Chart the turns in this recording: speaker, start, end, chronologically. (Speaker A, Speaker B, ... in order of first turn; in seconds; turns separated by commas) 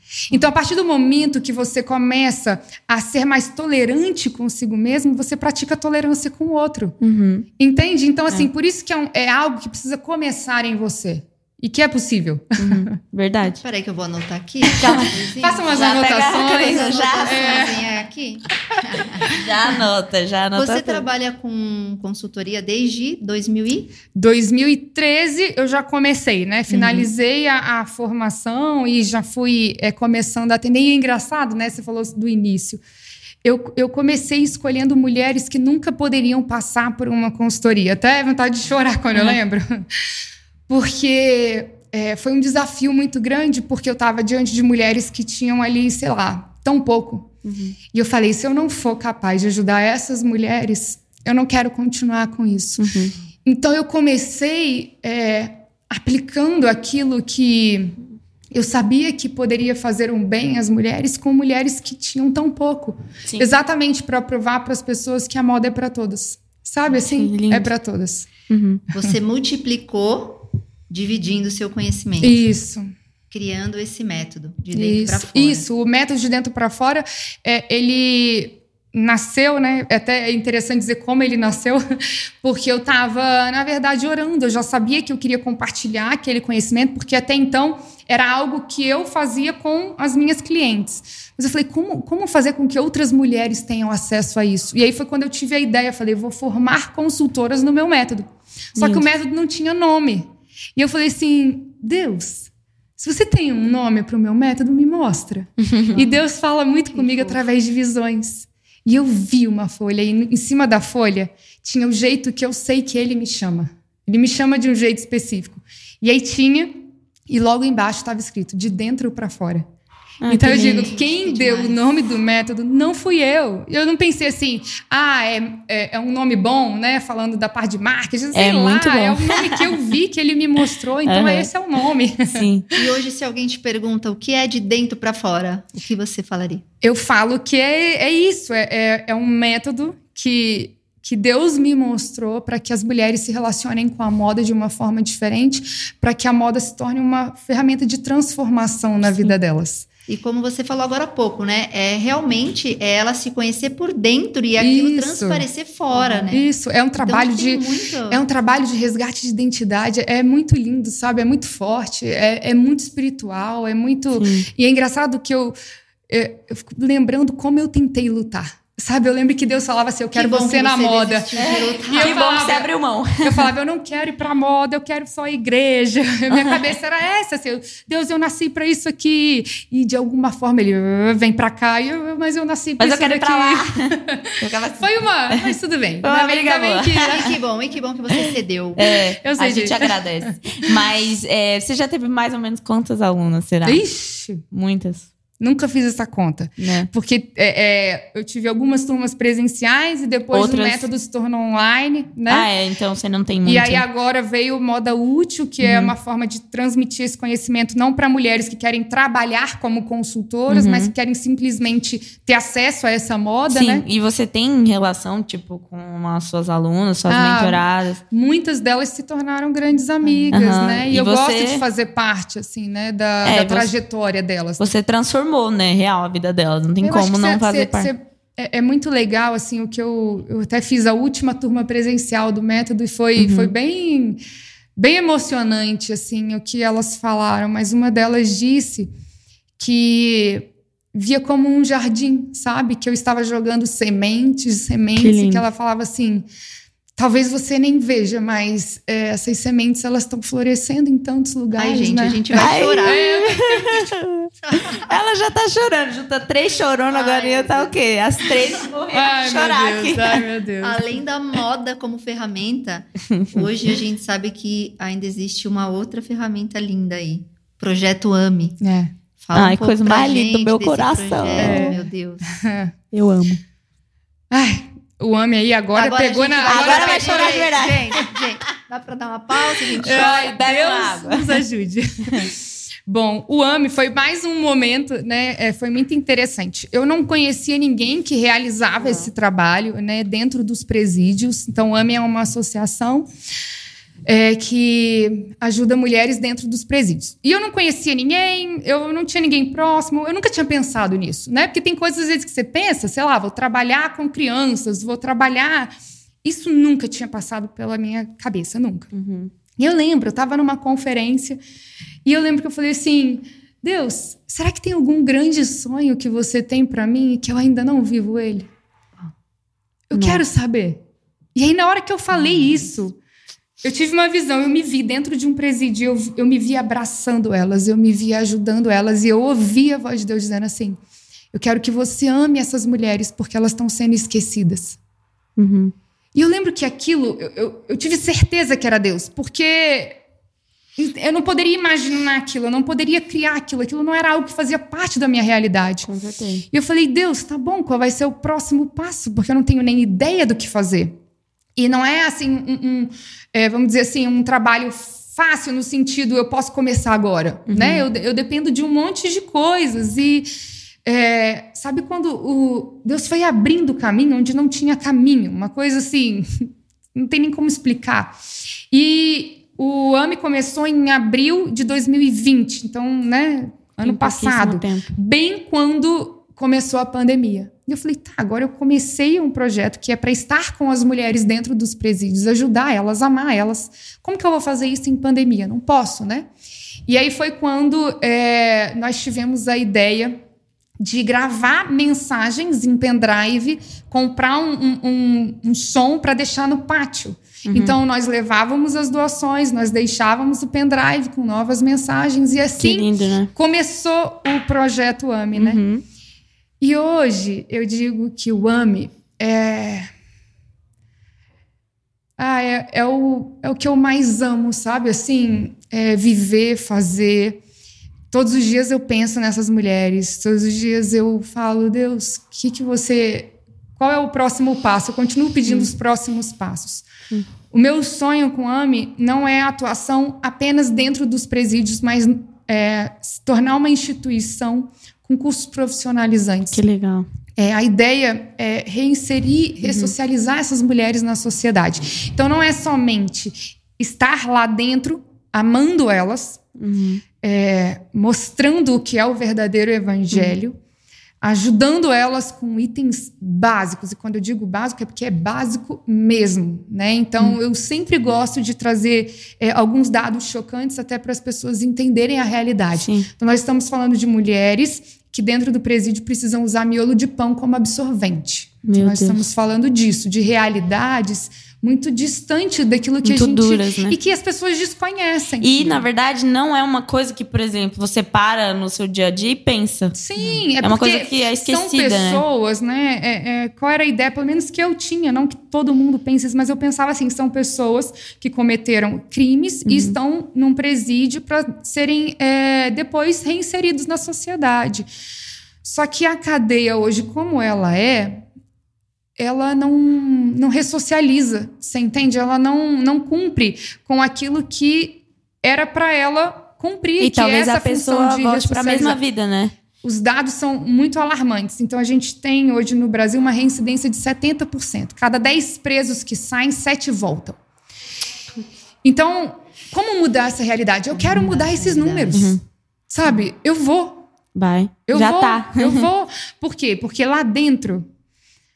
Speaker A: 0.3-7.0, Speaker B: 7.0-7.5, Speaker A: 7.6-12.8, Speaker B: 12.6-13.6, Speaker C: 13.6-19.3, Speaker B: 14.8-15.1, Speaker A: 14.8-17.9, Speaker B: 15.7-17.7, Speaker A: 18.8-19.3, Speaker B: 19.2-21.0, Speaker C: 20.5-23.9, Speaker A: 24.1-32.8, Speaker B: 26.7-27.1, Speaker A: 33.4-39.9, Speaker A: 40.7-47.3, Speaker B: 47.4-47.8, Speaker A: 47.9-52.9, Speaker B: 52.8-53.1, Speaker A: 53.4-58.0, Speaker A: 58.5-68.3, Speaker B: 66.9-67.7, Speaker B: 68.5-68.8, Speaker C: 68.9-72.4, Speaker A: 72.2-72.9, Speaker C: 73.3-75.6, Speaker A: 74.7-81.8, Speaker A: 82.4-119.7, Speaker B: 98.8-99.1, Speaker B: 105.6-106.1, Speaker C: 107.0-107.3, Speaker B: 120.2-120.9, Speaker A: 120.3-132.9, Speaker C: 120.4-121.8, Speaker B: 128.3-129.8, Speaker B: 131.0-131.5, Speaker B: 132.3-132.7, Speaker C: 132.8-136.6, Speaker A: 136.8-149.9, Speaker B: 149.0-149.3, Speaker C: 150.1-156.4, Speaker A: 154.6-165.6, Speaker C: 157.0-158.2, Speaker B: 164.1-164.5, Speaker A: 166.1-187.3, Speaker C: 170.1-172.2, Speaker B: 171.4-173.5, Speaker B: 176.3-176.7, Speaker B: 182.8-187.3, Speaker C: 187.1-188.8, Speaker B: 188.1-193.8, Speaker A: 189.2-190.7, Speaker A: 193.6-194.4, Speaker B: 194.5-195.1, Speaker A: 195.4-202.5, Speaker B: 196.6-196.9, Speaker B: 200.3-200.9, Speaker B: 202.3-203.8, Speaker A: 203.4-213.8, Speaker B: 205.6-205.9, Speaker B: 210.5-210.9, Speaker B: 213.5-218.0, Speaker A: 217.1-224.7, Speaker B: 220.3-221.6, Speaker B: 223.2-223.7, Speaker B: 224.6-227.9, Speaker A: 226.8-234.2, Speaker B: 233.2-233.5, Speaker A: 234.8-238.9, Speaker A: 239.6-246.3, Speaker B: 245.0-245.4, Speaker A: 247.0-253.9, Speaker C: 251.6-253.0, Speaker B: 252.3-260.2, Speaker C: 254.4-254.9, Speaker C: 256.9-258.6, Speaker A: 258.9-260.9, Speaker C: 260.6-268.6, Speaker B: 263.1-263.5, Speaker A: 268.6-268.9, Speaker C: 269.2-272.3, Speaker B: 269.3-271.8, Speaker A: 271.4-272.7, Speaker B: 272.9-273.4, Speaker A: 274.3-277.6, Speaker C: 275.7-280.2, Speaker B: 276.5-278.1, Speaker B: 279.8-281.4, Speaker A: 279.8-293.1, Speaker B: 288.8-289.1, Speaker A: 294.0-305.7, Speaker A: 306.2-308.9, Speaker B: 308.9-309.3, Speaker A: 309.6-311.4, Speaker A: 312.0-318.5, Speaker A: 319.9-320.8, Speaker B: 319.9-320.2, Speaker A: 321.4-323.0, Speaker A: 323.6-330.8, Speaker A: 331.3-334.8, Speaker B: 335.4-335.7, Speaker A: 336.1-340.0, Speaker A: 340.8-345.9, Speaker B: 345.9-346.4, Speaker A: 346.5-351.0, Speaker A: 351.6-360.3, Speaker B: 357.5-357.9, Speaker A: 360.9-368.1, Speaker A: 368.7-386.3, Speaker B: 373.8-374.9, Speaker A: 386.9-390.2, Speaker A: 390.8-405.6, Speaker B: 397.5-397.8, Speaker B: 402.6-403.3, Speaker B: 405.3-405.8, Speaker A: 406.6-409.9, Speaker A: 412.2-417.4, Speaker A: 418.1-426.9, Speaker A: 427.5-436.6, Speaker B: 436.5-437.1, Speaker A: 437.4-446.4, Speaker B: 439.6-439.9, Speaker B: 446.6-447.0, Speaker A: 447.2-450.6, Speaker A: 451.2-475.9, Speaker B: 462.8-463.1, Speaker B: 468.6-469.2, Speaker B: 473.0-474.0, Speaker B: 475.4-480.0, Speaker A: 480.0-494.9, Speaker B: 480.6-482.2, Speaker B: 489.6-490.0, Speaker A: 495.6-498.2, Speaker A: 499.2-509.0, Speaker B: 507.0-509.5, Speaker A: 509.8-517.4, Speaker A: 518.8-522.4, Speaker C: 520.9-522.2, Speaker B: 522.1-522.4, Speaker A: 522.9-524.1, Speaker B: 524.4-525.9, Speaker A: 524.9-527.9